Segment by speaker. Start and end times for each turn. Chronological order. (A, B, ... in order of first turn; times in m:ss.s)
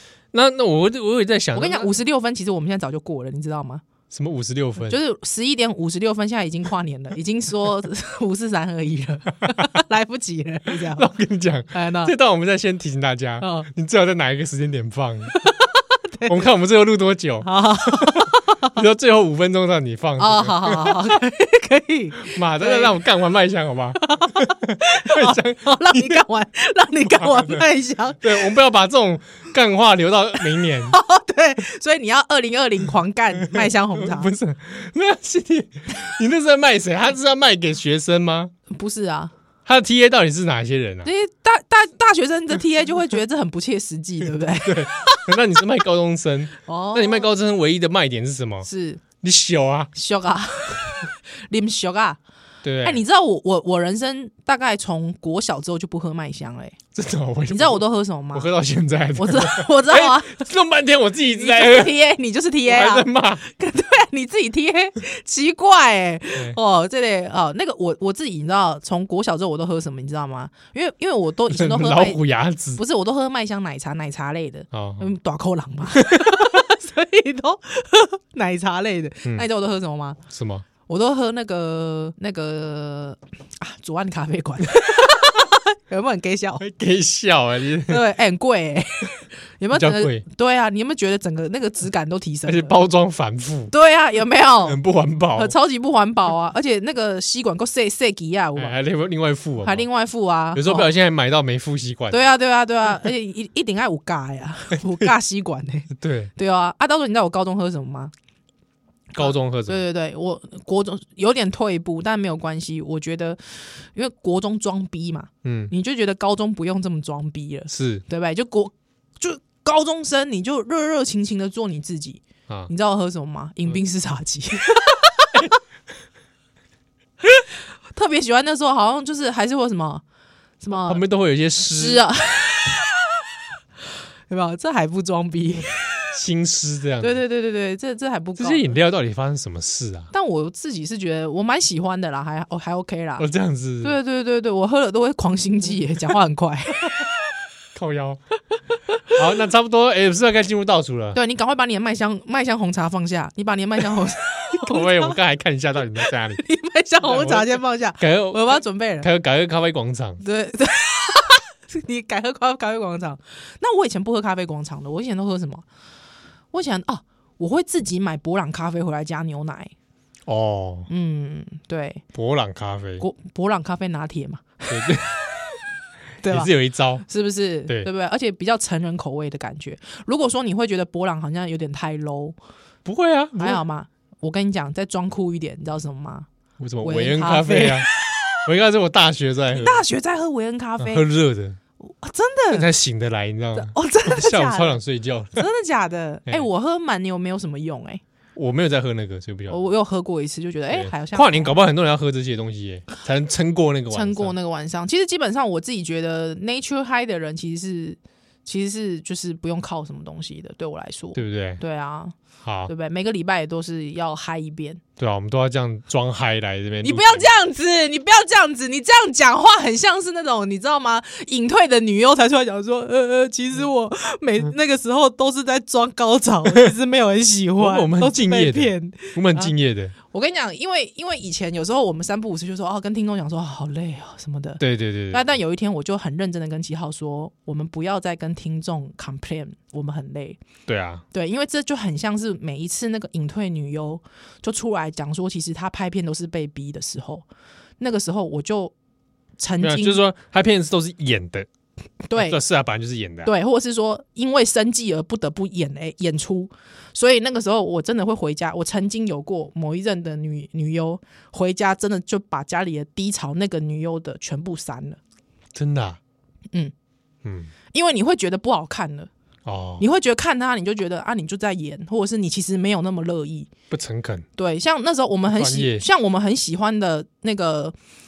0:00.3-0:01.9 A
0:01.6-0:03.8 B
0:04.1-0:05.0 A
0:04.8-0:11.1 B
0:10.7-0:15.4 A
0:11.7-0:12.1 B
0:13.4-0:13.7 B
0:15.4-0:16.3 B
0:16.2-0:21.2 A
0:17.4-0:18.8 B
0:20.2-0:23.0 B
0:22.2-0:26.2 A
0:24.0-0:28.5 B
0:27.0-0:27.7 A
0:28.2-0:31.0 A
0:30.9-0:34.3 B
0:33.4-0:38.5 A
0:38.7-0:39.3 B
0:39.7-0:41.1 A
0:41.0-0:45.3 B
0:44.7-0:48.7 A
0:46.7-0:47.3 B
0:48.6-0:49.0 B
0:49.2-0:49.9 A
0:49.9-0:52.2 B
0:52.6-0:53.0 A
0:52.8-0:56.8 B
0:57.0-0:57.8 A
0:57.5-0:58.5 B
0:58.3-1:02.0 A
0:59.2-1:00.5 B
1:01.4-1:12.2 B
1:02.6-1:03.4 A
1:11.5-1:12.8 A
1:12.8-1:20.2 B
1:14.7-1:15.1 A
1:16.0-1:16.5 A
1:20.3-1:20.7 A
1:20.9-1:26.6 B
1:26.6-1:28.0 A
1:27.9-1:32.8 B
1:29.7-1:30.2 A
1:32.5-1:33.7 A
1:33.7-1:34.8 B
1:34.6-1:35.5 A
1:35.4-1:38.8 B
1:38.6-1:39.9 A
1:39.6-1:40.9 B
1:40.6-1:42.3 A
1:42.1-1:48.1 B
1:46.0-1:46.3 A
1:49.1-1:49.8 A
1:49.2-2:05.6 B
1:55.4-1:55.7 A
1:57.7-1:58.0 A
2:07.2-2:10.0 B
2:10.6-2:11.0 B
2:10.8-2:12.0 A
2:11.6-2:13.2 B
2:14.3-2:16.0 B
2:16.1-2:17.2 A
2:17.0-2:18.7 B
2:18.4-2:20.1 A
2:20.1-2:23.3 B
2:23.2-2:24.0 A
2:23.8-2:27.1 B
2:27.8-2:28.2 A
2:29.1-2:31.2 A
2:31.2-2:35.2 B
2:34.6-2:36.4 A
2:36.0-2:39.1 B
2:37.0-2:40.2 A
2:40.2-2:45.6 B
2:46.5-2:49.7 B
2:50.3-2:50.9 A
2:50.9-2:52.0 B
2:52.2-2:53.0 A
2:53.0-2:54.9 B
2:54.7-2:55.4 A
2:56.2-2:56.5 B
2:56.2-2:57.0 A
2:57.0-3:02.4 B
3:02.8-3:03.6 A
3:03.4-3:06.3 B
3:06.6-3:07.9 A
3:06.8-3:08.2 B
3:08.4-3:09.8 A
3:09.5-3:11.0 B
3:10.8-3:11.6 A
3:11.8-3:12.7 B
3:12.5-3:15.5 A
3:13.6-3:14.8 B
3:15.4-3:18.0 B
3:18.4-3:19.6 A
3:19.5-3:21.6 B
3:20.7-3:24.4 A
3:23.9-3:32.2 B
3:31.2-3:31.6 A
3:32.4-3:32.7 A
3:32.7-3:34.8 B
3:35.0-3:37.3 A
3:36.8-3:49.5 B
3:47.6-3:49.9 A
3:50.1-4:00.4 B
3:54.6-3:55.2 A
4:00.7-4:01.0 A
4:01.1-4:07.3 B
4:07.8-4:08.7 B
4:09.4-4:10.0 B
4:09.6-4:11.5 A
4:12.1-4:12.4 B
4:12.1-4:13.3 A
4:13.2-4:25.0 B
4:25.6-4:26.0 A
4:27.2-4:27.5 A
4:27.7-4:29.1 B
4:29.5-4:29.8 A
4:29.8-4:33.5 B
4:33.7-4:34.3 A
4:34.4-4:37.8 B
4:35.3-4:35.8 A